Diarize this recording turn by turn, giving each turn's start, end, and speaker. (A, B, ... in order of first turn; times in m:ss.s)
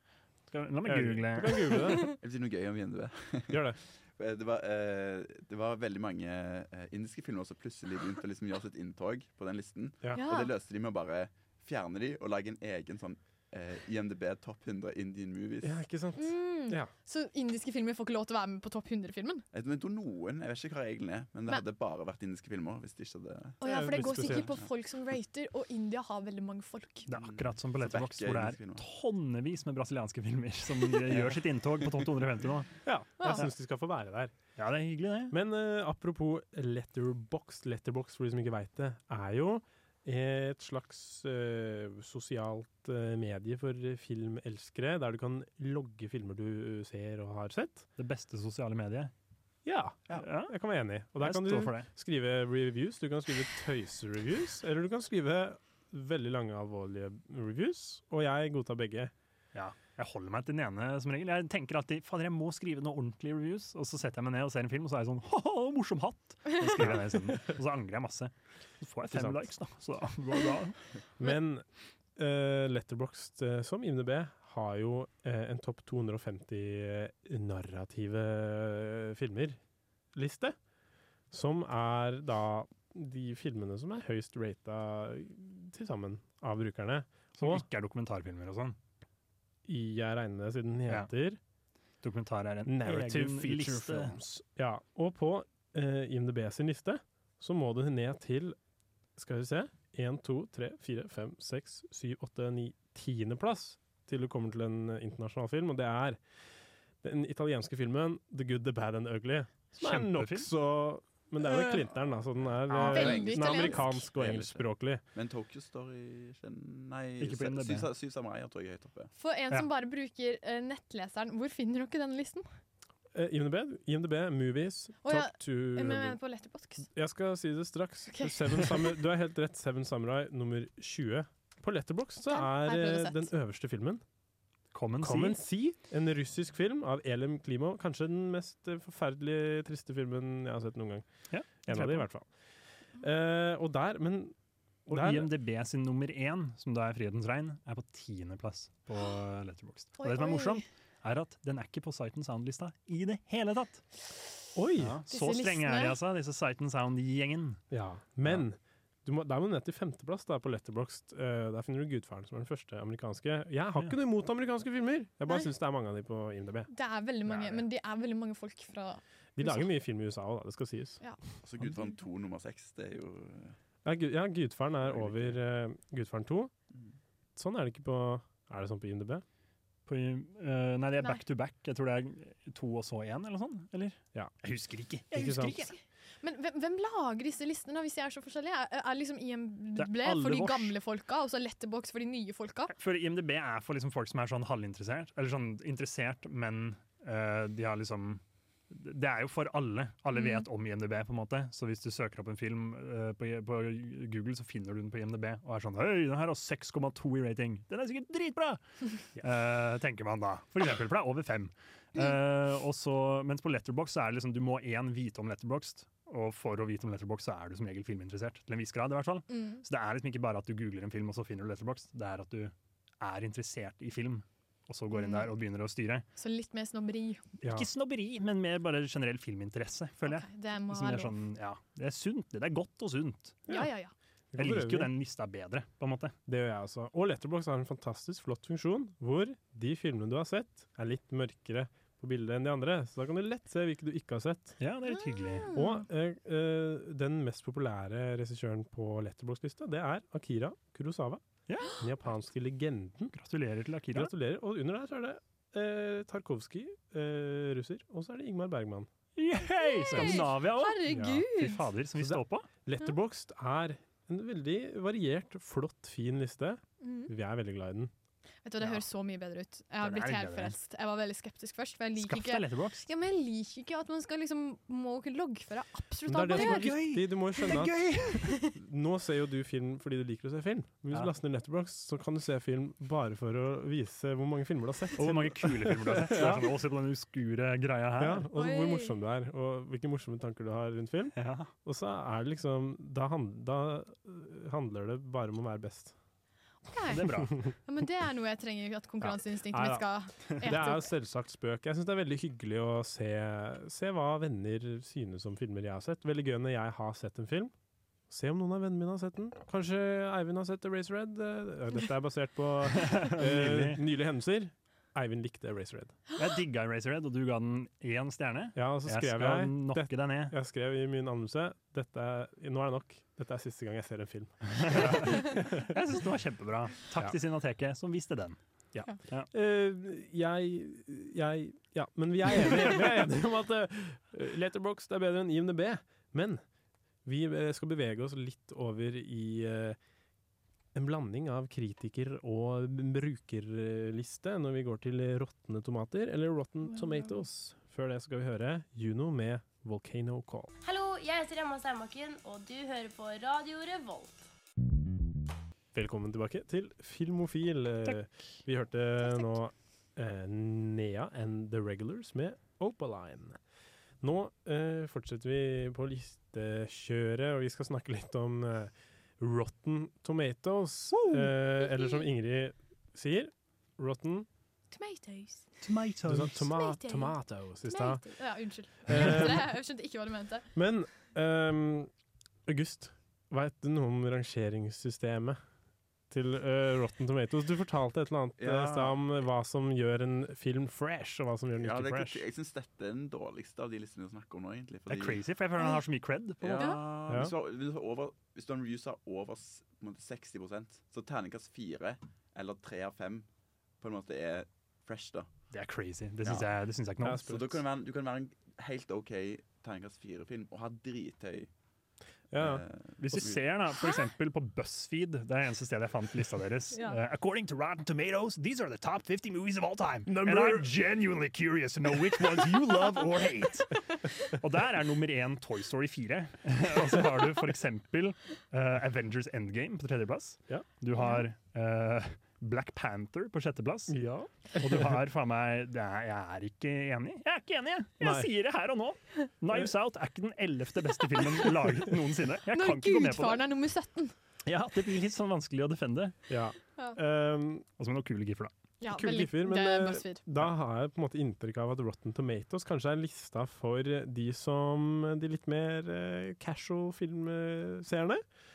0:00.5-0:01.9 A
0:00.8-0:02.1 B
0:01.9-0:02.1 C
0:02.2-0:15.8 D
0:03.5-0:03.8 B
0:10.1-0:10.5 C
0:15.6-0:16.9 B
0:16.2-0:19.4 C
0:19.5-0:24.6 D
0:23.6-0:27.1 C
0:23.6-0:24.6 B
0:27.1-0:32.7 A
0:27.1-0:28.8 D
0:31.1-0:31.4 D
0:32.8-0:34.3 B
0:33.2-0:33.4 C
0:34.6-0:35.3 A
0:35.3-0:47.9 B
0:48.0-0:49.1 A
0:49.6-0:59.1 B
0:50.1-0:50.5 A
0:51.2-0:51.9 A
0:59.5-1:10.8 A
1:06.8-1:07.4 B
1:09.1-1:09.5 B
1:11.2-1:11.6 B
1:12.2-1:19.6 B
1:20.1-1:20.5 B
1:21.3-1:27.6 B
1:27.4-1:28.8 A
1:29.6-1:31.4 B
1:32.0-1:34.2 A
1:32.6-1:38.6 B
1:39.2-1:46.2 B
1:47.0-1:55.0 B
1:49.8-1:50.5 A
1:52.7-1:54.1 C
1:52.8-1:59.1 D
1:57.2-1:57.9 A
1:59.2-2:02.5 C
2:03.1-2:06.2 B
2:05.0-2:06.9 C
2:06.8-2:14.0 B
2:08.1-2:08.7 C
2:12.3-2:13.3 C
2:14.7-2:15.4 A
2:15.0-2:21.0 B
2:21.3-2:22.0 A
2:21.6-2:22.3 B
2:23.0-2:24.3 B
2:24.9-2:25.3 B
2:24.9-2:33.8 A
2:30.0-2:30.6 C
2:34.5-2:35.0 B
2:34.8-2:37.6 A
2:35.1-2:36.0 C
2:37.7-2:46.7 B
2:46.7-2:49.7 C
2:47.3-2:47.6 A
2:49.4-2:51.0 B
2:51.4-2:53.6 D
2:53.8-2:56.5 B
2:54.8-2:55.4 D
2:57.4-2:59.2 B
2:59.8-3:05.7 A
3:05.1-3:05.6 B
3:06.2-3:12.7 C
3:09.8-3:10.8 A
3:12.7-3:28.6 A
3:20.1-3:20.4 C
3:29.2-3:46.0 A
3:39.3-3:39.6 C
3:44.9-3:45.3 C
3:46.2-3:47.2 C
3:47.4-3:53.5 A
3:47.4-3:47.7 B
3:50.0-3:51.1 C
3:53.5-3:53.9 C
3:54.3-3:54.9 B
3:54.4-3:56.1 A
3:56.3-4:04.6 B
4:04.6-4:05.5 A
4:05.1-4:05.8 C
4:05.5-4:11.2 B
4:11.5-4:11.8 A
4:11.8-4:13.1 B
4:13.1-4:14.1 A
4:13.9-4:18.9 B
4:19.2-4:22.5 A
4:19.6-4:21.6 C
4:19.9-4:20.2 B
4:20.9-4:21.2 B
4:22.0-4:27.9 B
4:26.8-4:27.1 C
4:28.4-4:36.8 C
4:29.8-4:30.5 A
4:32.0-4:32.8 A
4:36.0-4:46.5 B
4:36.3-4:38.4 A
4:37.4-4:38.5 C
4:45.0-4:48.3 A
4:48.0-4:55.9 B
4:48.3-4:48.9 C
4:51.2-4:51.5 A
4:56.7-5:00.9 C
4:56.9-4:57.4 A
4:59.0-5:07.5 B
5:08.1-5:16.0 B
5:12.8-5:13.8 A
5:16.2-5:20.3 A
5:18.6-5:25.8 B
5:24.5-5:28.4 A
5:28.7-5:36.4 B
5:37.0-5:39.8 B
5:40.7-5:50.5 B
5:50.6-5:54.2 E
5:55.7-6:03.4 B
5:59.0-5:59.3 C
6:04.0-6:14.3 B
6:10.9-6:11.3 A
6:14.7-6:15.5 C
6:15.6-6:16.4 A
6:16.0-6:18.0 B
6:16.5-6:20.5 C
6:18.8-6:19.4 B
6:20.5-6:21.9 B
6:22.4-6:25.4 B
6:26.1-6:32.2 B
6:28.4-6:29.0 D
6:31.6-6:35.2 D
6:34.9-6:36.7 A
6:36.4-6:43.2 D
6:37.1-6:37.3 B
6:43.8-6:45.3 D
6:45.5-6:47.3 A
6:47.0-6:47.6 B
6:47.2-6:51.5 D
6:52.3-6:52.6 B
6:52.3-6:53.4 D
6:53.0-7:14.0 A
7:00.1-7:00.7 B
7:11.0-7:11.2 C
7:13.9-7:14.8 B
7:14.6-7:23.4 A
7:18.0-7:18.3 B
7:22.5-7:24.1 C
7:24.4-7:26.1 A
7:26.3-7:27.6 B
7:27.8-7:28.5 A
7:28.8-7:30.2 C
7:28.9-7:38.2 B